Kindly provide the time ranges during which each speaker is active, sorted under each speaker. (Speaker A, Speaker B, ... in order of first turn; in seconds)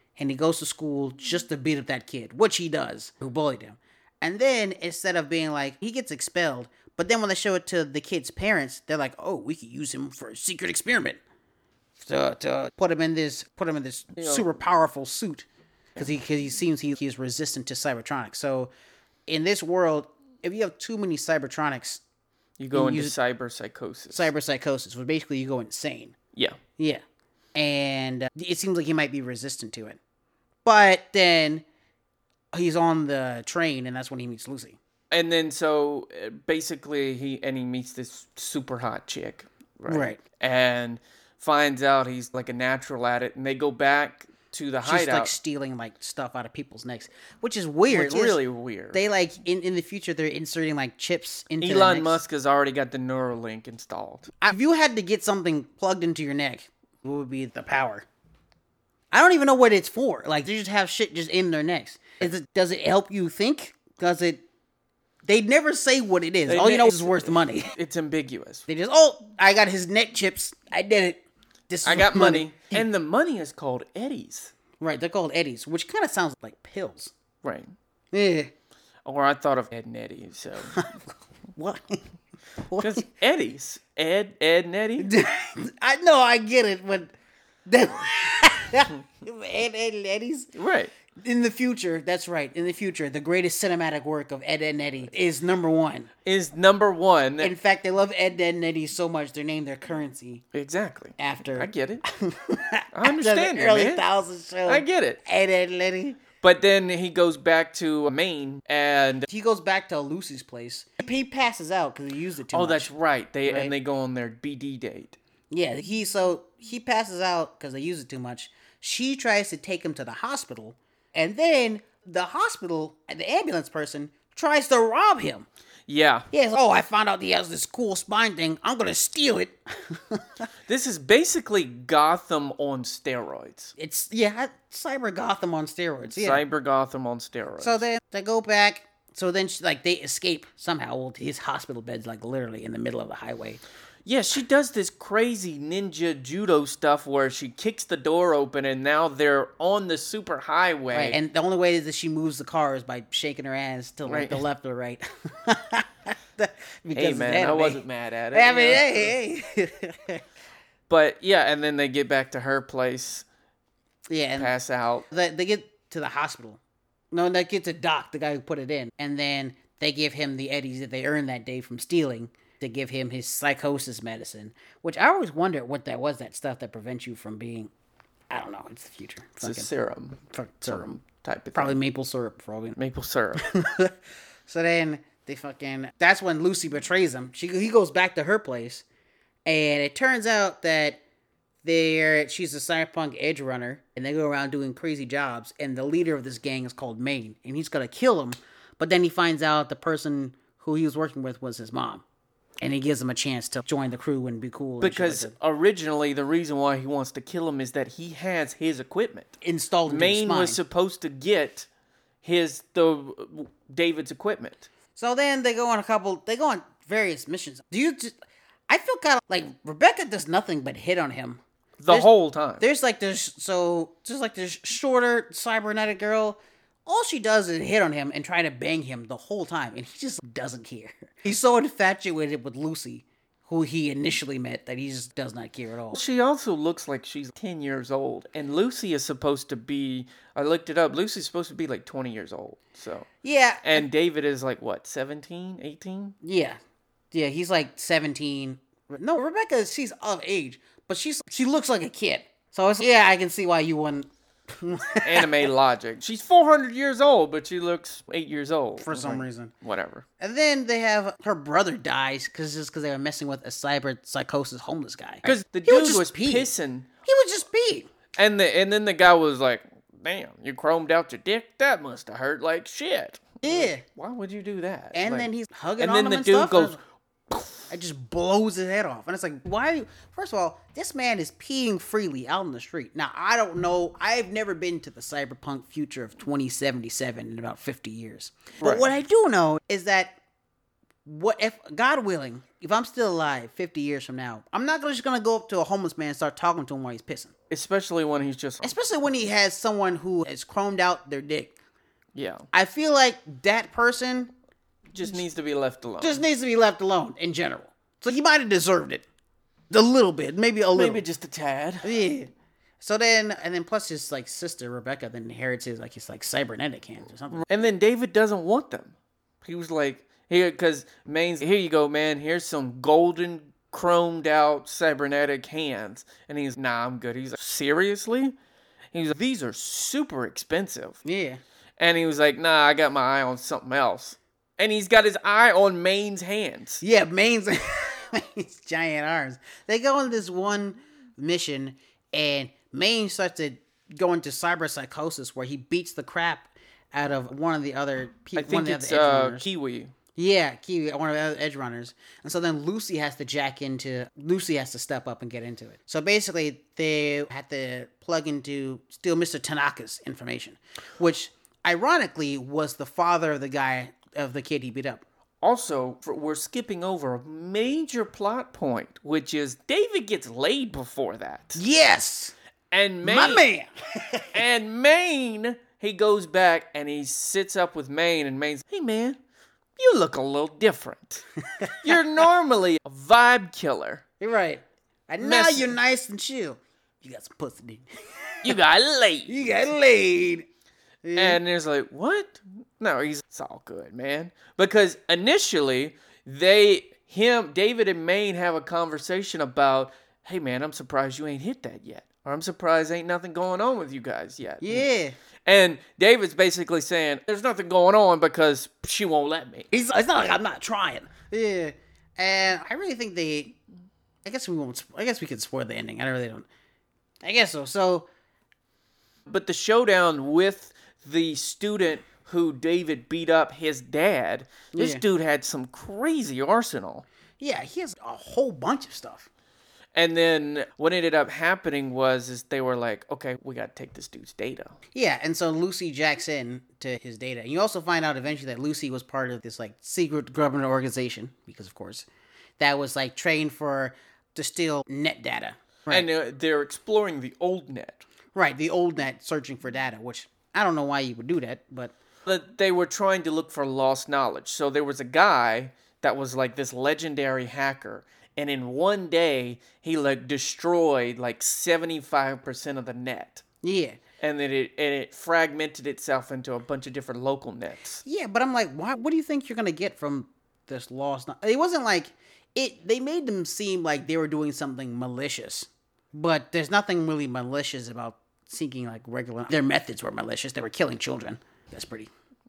Speaker A: 0.2-11.2, 12.0-18.7, 19.3-22.0, 22.7-23.1, 24.1-26.2, 27.6-30.0, 30.6-31.6, 32.5-34.8, 39.9-40.2, 44.8-48.4, 48.9-52.2, 54.4-58.0, 59.1-64.4, 65.2-67.7, 68.7-72.8, 74.8-77.1, 78.1-78.5, 80.7-81.0, 81.5-82.0, 82.6-83.0, 85.0-87.1, 87.7-90.5, 91.2-96.1, 97.4-100.4, 101.2-106.2, 109.3-112.9, 113.5-113.7, 115.5-125.5, 126.3-130.5, 133.8-136.4, 137.6-143.6, 150.9-157.8, 158.3-160.2, 164.1-164.5, 165.1-166.6, 167.1-177.7, 178.3-179.7, 180.3-181.0, 181.5-182.8, 183.4-184.0, 184.5-188.8, 189.5-191.0, 191.6-202.0, 202.6-205.3, 209.4-210.6, 215.0-222.1, 222.6-236.0, 243.2-243.8, 246.2-246.6, 247.1-255.4, 258.8-259.5, 260.2-266.5, 267.1-267.9, 273.4-273.8, 274.9-276.8, 277.7-290.2, 291.1-297.3, 298.6-301.5, 302.5-304.3, 306.0-309.1, 309.7-311.0, 311.8-317.4, 331.0-331.4, 336.8-349.5, 350.2-365.0, 371.6-372.3, 373.0-374.4, 381.6-382.0, 384.2-388.6, 389.3-390.5, 391.0-391.4, 404.6-405.1, 409.7-413.6, 414.2-416.5, 417.2-418.1, 424.7-425.0, 427.4-429.3, 434.9-442.1, 442.6-446.1, 448.4-451.9, 463.6-464.0, 468.1-482.1
Speaker B: 14.2-14.5, 22.6-24.3, 35.1-45.3, 47.9-49.0, 51.6-54.3, 66.5-68.7, 71.8-74.5, 77.4-77.7, 79.0-80.8, 82.8-85.1, 90.5-90.9, 96.2-97.5, 100.5-102.0, 102.9-104.0, 104.7-105.2, 106.4-109.3, 112.5-115.2, 125.9-126.3, 130.7-133.7, 136.1-137.8, 144.1-151.2, 154.1-154.4, 156.9-159.1, 160.9-163.2, 164.4-165.1, 179.4-181.8, 182.8-183.4, 204.8-211.7, 212.2-214.7, 221.8-222.6, 235.9-243.1, 243.6-246.2, 255.0-260.1, 265.2-266.9, 268.1-276.8, 288.6-288.9, 297.5-298.7, 302.1-302.5, 304.9-306.2, 310.8-311.9, 317.3-328.4, 328.9-331.0, 331.8-336.8, 348.4-349.9, 365.4-371.6, 372.7-373.4, 374.3-379.2, 379.8-381.2, 381.8-384.0, 385.2-385.8, 388.4-389.3, 391.2-404.9, 405.4-409.7, 419.3-427.1, 429.9-434.8, 445.9-448.1, 452.2-463.4, 464.2-468.0